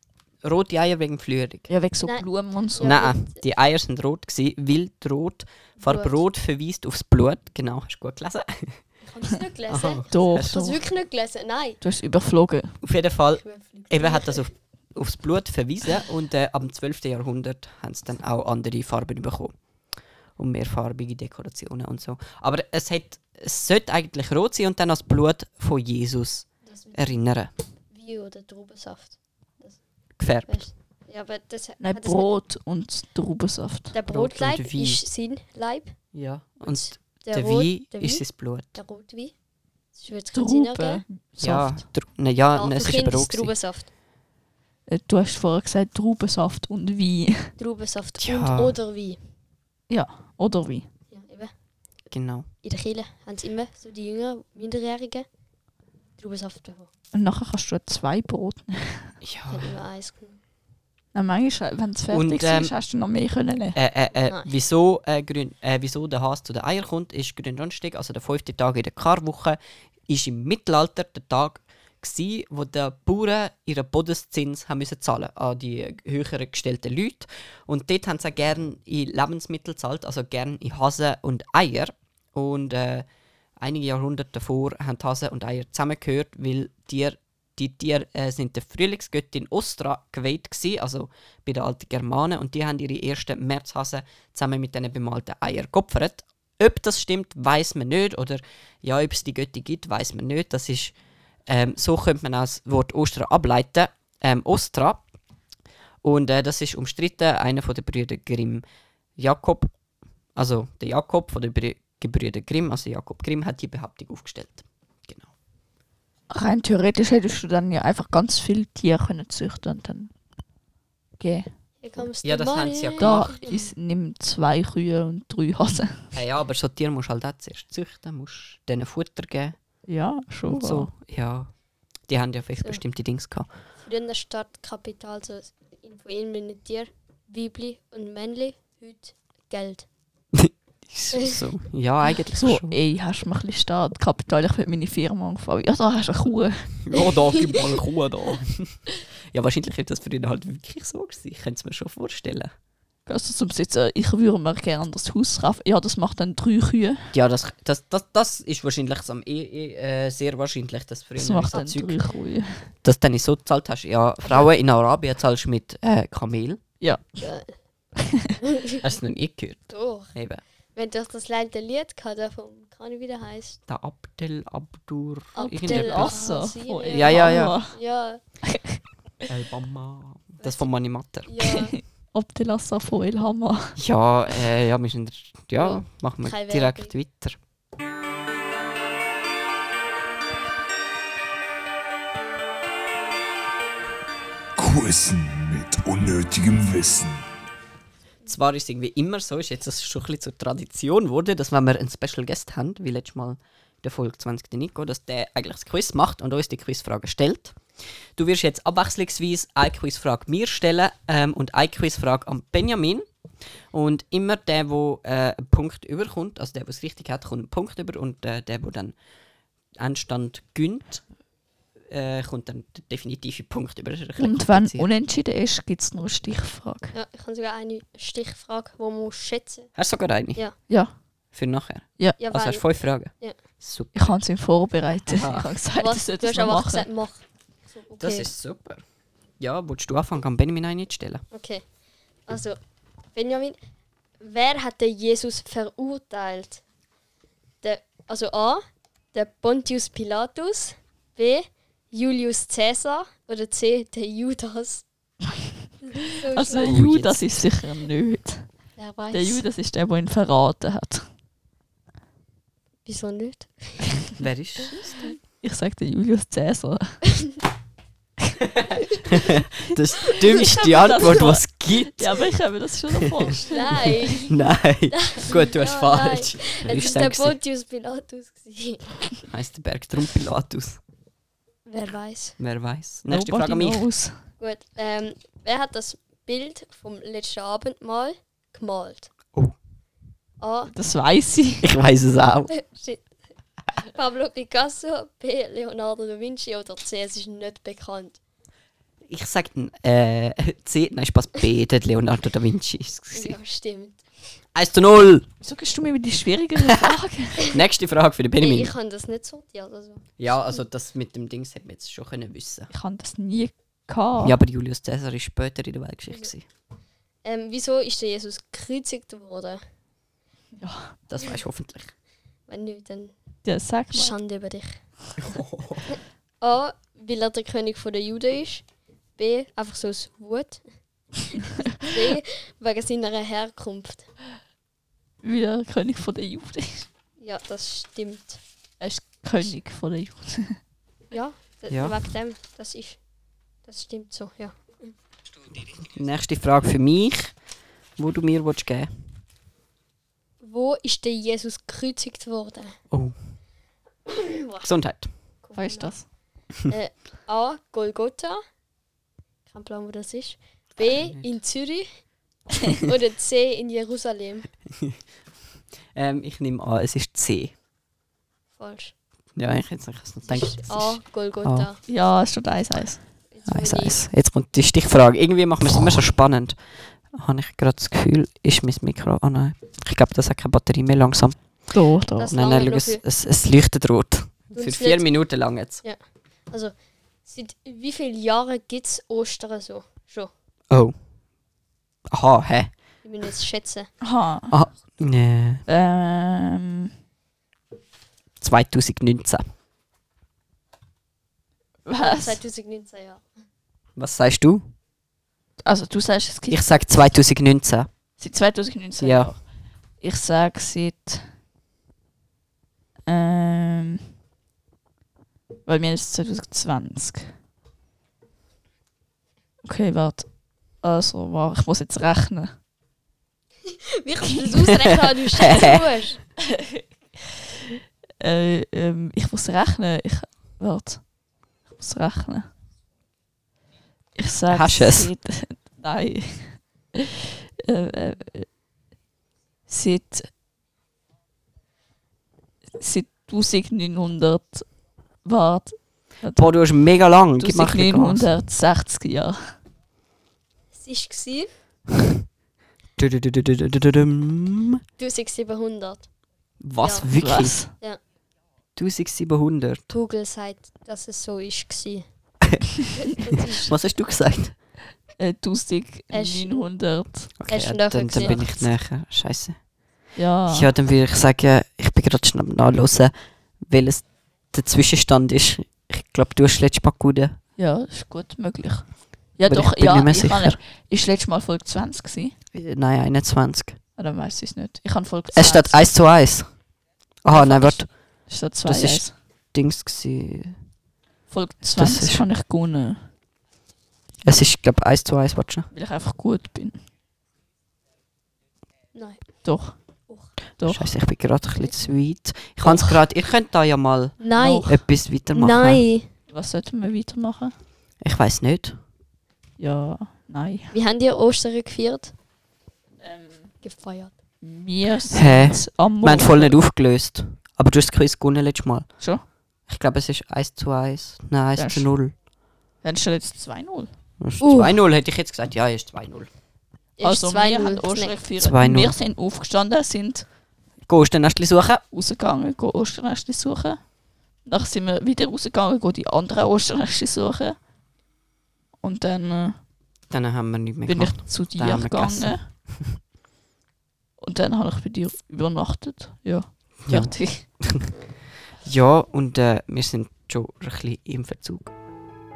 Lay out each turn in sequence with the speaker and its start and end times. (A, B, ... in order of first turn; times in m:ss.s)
0:00.4-0:01.7 A
0:01.7-0:02.9 B
0:02.0-0:03.4 C
0:02.8-0:08.8 A
0:05.8-0:06.2 C
0:09.0-0:11.8 C
0:09.7-0:10.6 A
0:10.1-0:10.8 B
0:11.8-0:12.8 B
0:12.8-0:19.6 A
0:13.4-0:14.5 C
0:20.4-0:27.5 A
0:26.6-0:27.2 C
0:27.9-0:32.3 C
0:30.2-0:30.6 A
0:31.8-0:33.9 B
0:33.9-0:39.3 C
0:34.1-0:35.0 A
0:36.1-0:38.8 A
0:39.9-0:41.0 C
0:40.3-0:41.8 B
0:41.4-0:43.5 A
0:42.5-0:43.9 C
0:44.9-0:47.5 B
0:47.6-0:49.2 C
0:48.2-0:48.8 A
0:49.9-0:50.9 B
0:51.1-0:51.5 C
0:52.1-0:52.5 A
0:52.6-0:55.3 C
0:56.2-0:56.9 C
0:57.1-0:59.1 B
0:59.2-0:59.7 A
0:59.5-1:00.4 C
1:01.1-1:03.8 B
1:02.1-1:02.8 A
1:03.7-1:23.1 A
1:23.6-1:40.9 A
1:41.5-1:45.0 A
1:46.0-1:48.6 A
1:49.2-1:49.7 A
1:50.3-1:55.3 A
1:56.3-2:00.1 B
2:01.2-2:01.5 B
2:01.8-2:03.7 C
2:02.2-2:03.4 A
2:03.0-2:06.1 B
2:06.1-2:09.6 A
2:09.9-2:10.9 B
2:10.5-2:11.5 A
2:12.0-2:13.5 A
2:13.8-2:19.9 C
2:20.3-2:22.8 A
2:22.4-2:26.8 B
2:26.8-2:32.5 A
2:33.0-2:37.1 B
2:37.1-2:42.0 A
2:41.2-2:42.7 B
2:42.8-2:46.6 A
2:46.8-2:47.2 B
2:47.2-2:47.6 C
2:48.4-2:48.8 C
2:48.8-2:50.4 A
2:49.7-2:50.1 C
2:50.7-2:53.6 C
2:53.7-2:57.6 A
2:55.3-2:58.2 C
2:55.6-2:57.8 B
2:58.5-2:58.8 B
2:59.3-3:01.3 A
3:00.4-3:01.7 C
3:01.6-3:03.8 B
3:03.8-3:07.4 A
3:05.5-3:06.9 C
3:14.6-3:17.2 D
3:18.2-3:27.6 A
3:28.2-3:33.1 A
3:33.7-3:38.9 A
3:39.8-3:41.0 A
3:41.8-3:44.9 A
3:44.2-3:46.9 B
3:46.9-3:49.7 C
3:49.7-3:50.4 A
3:50.7-3:50.9 B
3:51.3-3:54.1 A
3:52.2-3:53.4 C
3:53.9-3:56.8 B
3:55.0-3:55.5 A
3:55.7-3:58.3 C
3:58.0-3:58.8 A
3:59.4-4:01.2 A
4:01.3-4:01.6 C
4:02.3-4:02.6 C
4:03.1-4:03.6 C
4:04.2-4:06.6 C
4:07.6-4:14.8 C
4:16.1-4:16.8 C
4:16.3-4:18.5 B
4:16.5-4:17.4 A
4:18.8-4:19.4 C
4:19.1-4:21.1 B
4:22.8-4:24.0 C
4:24.2-4:25.0 A
4:25.4-4:27.0 B
4:29.1-4:32.3 A
4:30.3-4:34.0 B
4:33.4-4:34.4 C
4:34.3-4:37.4 A
4:34.9-4:39.2 C
4:39.3-4:40.8 A
4:41.6-4:42.4 C
4:42.4-4:43.9 A
4:43.1-4:44.2 B
4:44.4-4:49.1 C
4:50.4-4:50.7 C
4:50.7-4:51.7 B
4:51.6-4:52.5 A
4:52.5-4:53.1 C
4:53.8-4:58.2 C
4:59.1-5:03.4 A
5:03.1-5:04.1 C
5:04.5-5:05.3 A
5:05.4-5:07.5 B
5:06.7-5:08.7 A
5:08.4-5:10.6 C
5:10.2-5:12.7 A
5:12.7-5:14.4 B
5:14.2-5:16.4 A
5:17.2-5:19.6 C
5:20.6-5:21.0 B
5:21.1-5:21.9 A
5:22.5-5:23.1 C
5:23.4-5:24.1 B
5:23.9-5:24.9 C
5:25.2-5:26.0 A
5:25.9-5:28.6 C
5:29.2-5:30.6 C
5:31.2-5:34.1 C
5:35.2-5:36.9 B
5:37.2-5:38.4 C
5:38.8-5:40.6 B
5:41.1-5:43.0 C
5:41.7-5:42.0 A
5:43.6-5:44.9 C
5:45.7-5:47.4 A
5:48.0-5:48.9 A
5:50.4-5:52.8 C
5:52.9-5:53.2 A
5:54.1-5:54.7 C
5:54.6-5:55.1 A
5:55.4-5:56.1 C
5:55.5-5:56.1 B
5:56.6-5:58.4 C
5:59.5-6:02.0 C
6:00.8-6:01.3 A
6:02.8-6:04.6 C
6:05.9-6:07.5 A
6:08.6-6:08.9 C
6:09.4-6:11.7 A
6:10.3-6:11.8 C
6:11.9-6:13.0 B
6:13.3-6:14.0 C
6:13.5-6:16.6 A
6:17.1-6:21.5 A
6:21.7-6:22.3 B
6:22.2-6:23.0 C
6:22.3-6:25.8 A
6:24.5-6:26.7 C
6:27.2-6:30.3 C
6:30.7-6:30.9 A
6:32.1-6:32.7 A
6:33.0-6:33.9 C
6:34.0-6:34.6 B
6:34.5-6:35.6 A
6:35.7-6:36.9 B
6:38.4-6:39.4 A
6:41.8-6:42.4 B
6:42.0-6:43.2 C
6:44.0-6:44.7 A
6:45.6-6:46.7 B
6:46.5-6:47.9 A
6:48.2-6:49.4 B
6:49.0-6:49.3 A
6:50.0-6:51.3 B
6:53.0-6:54.0 B
6:55.6-6:57.3 B
6:59.6-7:02.5 B
7:04.0-7:06.3 C
7:05.4-7:05.8 A
7:08.2-7:11.1 B
7:11.6-7:12.5 B
7:14.1-7:17.0 B
7:14.5-7:15.1 A
7:17.6-7:18.5 B
7:19.7-7:20.3 B
7:22.8-7:26.6 B
7:26.3-7:28.4 A
7:27.4-7:29.6 B
7:30.7-7:31.5 C
7:33.0-7:34.8 A
7:35.0-7:36.1 C
7:36.6-7:37.7 A
7:36.8-7:38.0 C
7:37.1-7:37.7 B
7:38.8-7:39.8 A
7:39.9-7:42.0 C
7:43.2-7:43.7 C
7:43.6-7:44.6 A
7:45.2-7:47.4 B
7:46.1-7:46.7 C
7:47.4-7:49.7 A
7:47.5-7:48.6 C
7:48.2-7:48.5 B
7:50.1-7:50.7 B
7:50.4-7:57.4 A
7:57.6-8:02.3 B
7:59.5-8:00.6 A
8:02.5-8:03.8 A
8:04.0-8:05.8 B
8:05.3-8:06.6 A
8:07.2-8:10.6 A
8:07.3-8:09.1 B
8:11.3-8:13.1 B
8:11.7-8:12.2 A
8:14.2-8:15.7 A
8:15.7-8:16.8 B
8:18.9-8:19.2 C
8:19.4-8:19.8 B
8:20.1-8:20.3 C
8:20.6-8:20.9 B
8:20.6-8:25.8 A
8:24.2-8:26.1 C
8:24.4-8:24.7 B
8:26.3-8:27.5 B
8:28.0-8:28.8 A
8:29.6-8:30.7 B
8:30.7-8:32.1 C
8:33.0-8:33.5 B
8:33.6-8:34.1 C
8:34.4-8:36.6 B
8:35.1-8:39.0 A
8:39.6-8:42.1 A
8:41.6-8:41.9 B
8:42.8-8:43.9 B
8:44.2-8:46.3 A
8:44.4-8:44.7 C
8:47.0-8:48.2 C
8:47.0-8:50.3 B
8:48.4-8:49.0 A
8:50.8-8:51.8 A
8:51.9-8:53.9 B
8:54.4-8:57.6 B
8:58.8-8:59.6 B
9:00.1-9:03.0 A
9:00.9-9:02.5 B
9:04.2-9:07.4 B
9:06.8-9:07.9 A
9:08.6-9:11.7 A